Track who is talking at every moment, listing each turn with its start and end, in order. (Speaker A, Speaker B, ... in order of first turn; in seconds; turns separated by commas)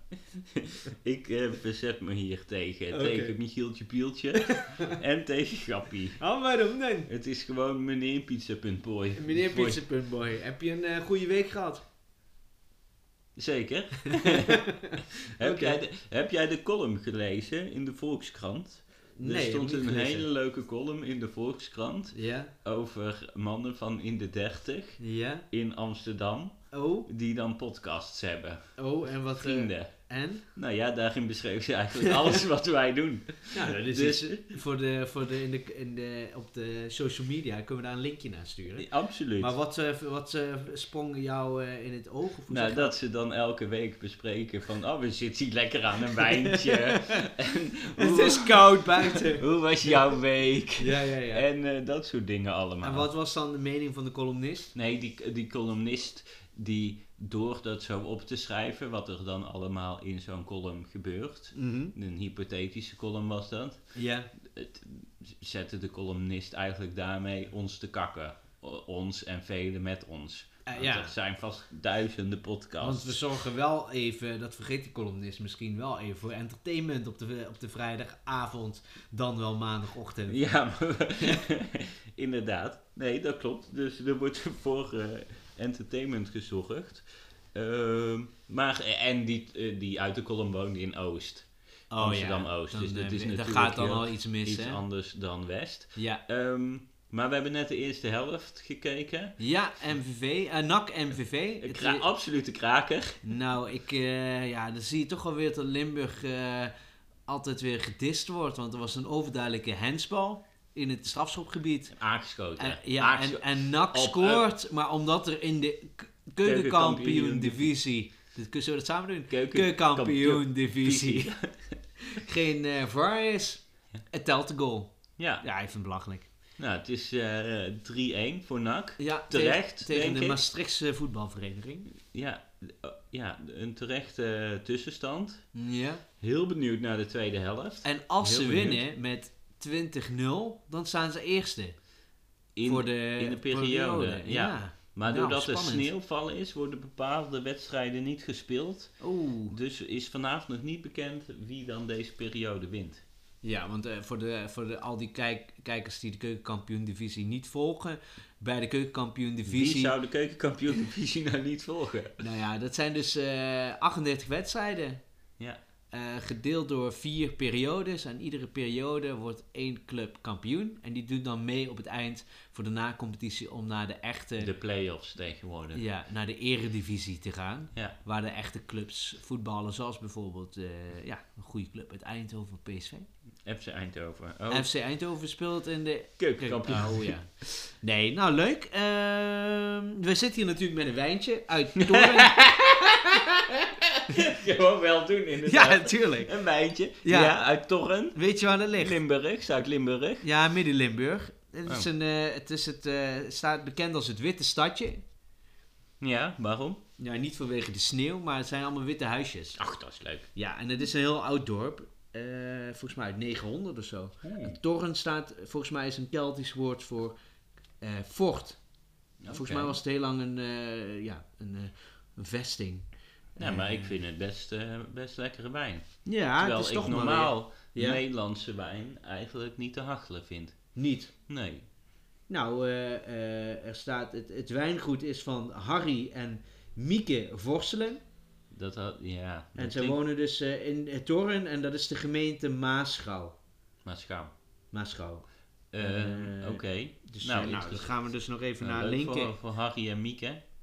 Speaker A: 0.6-6.2, Speaker B: 2.9-3.4, Speaker B: 6.2-7.1, Speaker A: 7.1-9.8, Speaker B: 9.2-11.8, Speaker A: 13.4-14.7, Speaker B: 14.2-15.8, Speaker A: 15.3-28.6, Speaker B: 19.2-20.3, Speaker B: 22.1-22.5, Speaker B: 25.0-25.5, Speaker B: 26.7-27.1, Speaker B: 28.8-30.4, Speaker A: 29.4-29.9, Speaker A: 30.5-34.6, Speaker B: 33.5-42.9, Speaker A: 38.8-39.5, Speaker A: 42.5-53.1, Speaker B: 46.7-47.0, Speaker B: 48.0-49.4, Speaker B: 50.8-51.5, Speaker B: 52.8-54.7, Speaker A: 54.8-64.0, Speaker B: 61.5-61.9, Speaker B: 64.0-64.3, Speaker A: 64.5-73.2, Speaker B: 70.7-71.1, Speaker B: 72.8-80.4, Speaker A: 80.3-99.4, Speaker B: 91.9-94.8, Speaker B: 96.0-96.2, Speaker B: 99.4-102.0, Speaker A: 101.6-103.2, Speaker B: 103.2-106.7, Speaker B: 107.3-112.0, Speaker A: 111.9-114.5, Speaker B: 112.6-121.3, Speaker A: 116.4-117.7, Speaker A: 119.3-121.8, Speaker B: 122.2-126.3, Speaker A: 125.2-125.5, Speaker A: 126.6-130.4, Speaker B: 129.0-131.9, Speaker A: 132.1-135.5, Speaker B: 135.6-136.0, Speaker A: 136.2-138.8, Speaker B: 137.8-141.8, Speaker A: 142.6-153.0, Speaker B: 142.7-145.9, Speaker B: 149.0-149.5, Speaker B: 153.4-159.9, Speaker A: 159.5-162.2, Speaker B: 162.2-165.0, Speaker B: 165.9-174.5, Speaker A: 174.4-175.8, Speaker B: 175.8-183.1, Speaker A: 183.5-184.7, Speaker B: 184.5-192.4, Speaker A: 186.2-187.1, Speaker A: 191.8-198.2, Speaker B: 195.4-196.3, Speaker B: 197.0-197.4, Speaker B: 198.1-199.0, Speaker A: 198.8-200.3, Speaker B: 200.2-205.0, Speaker A: 206.0-206.8, Speaker B: 207.0-209.6, Speaker A: 209.6-210.3, Speaker B: 210.3-217.2, Speaker A: 214.2-214.6, Speaker B: 217.8-218.6, Speaker A: 219.2-219.8, Speaker B: 219.3-223.9, Speaker A: 223.4-225.8, Speaker B: 226.1-228.0, Speaker A: 226.4-230.6, Speaker B: 230.8-231.1, Speaker A: 231.3-231.6, Speaker B: 232.3-238.0, Speaker A: 238.5-240.0, Speaker B: 239.6-243.3, Speaker A: 243.8-244.3, Speaker B: 244.7-245.3, Speaker A: 245.7-248.0, Speaker B: 245.8-249.3, Speaker A: 248.6-250.4